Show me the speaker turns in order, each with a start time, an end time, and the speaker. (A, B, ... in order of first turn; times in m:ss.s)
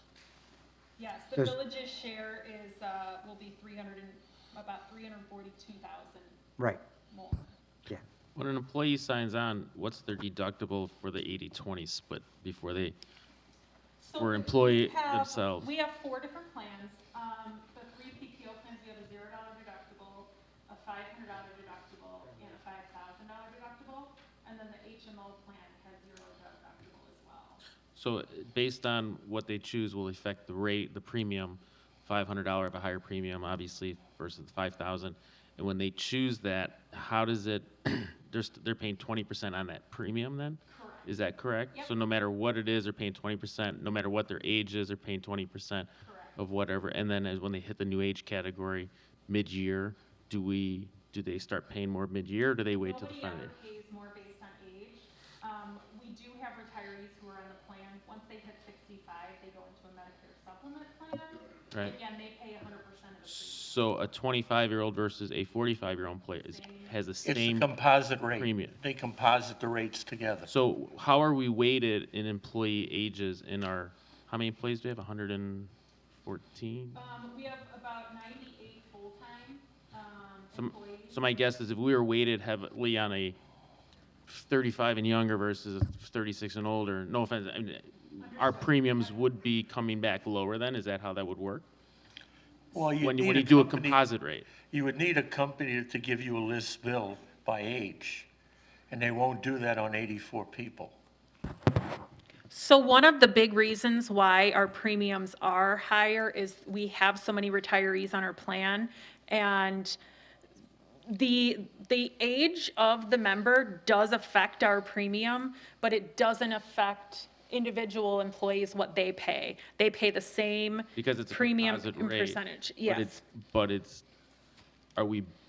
0:01.0-0:06.4 A
0:07.1-0:07.5 A
0:08.4-0:13.0 B
0:14.0-0:27.6 A
0:14.2-0:15.7 B
0:27.9-0:53.6 B
0:40.7-0:41.2 A
0:46.0-0:46.4 A
0:52.8-1:03.8 A
1:03.3-1:07.8 B
1:06.3-1:07.0 A
1:07.2-1:10.5 C
1:08.3-1:08.8 B
1:10.5-1:17.0 B
1:16.9-1:21.2 A
1:20.5-1:23.4 B
1:24.3-1:31.6 B
1:28.2-1:29.2 A
1:32.7-1:34.0 C
1:32.8-1:34.5 B
1:34.7-1:38.3 C
1:38.9-1:41.0 C
1:42.5-1:50.0 A
1:51.1-2:03.2 A
2:01.0-2:04.0 B
2:05.0-2:05.3 B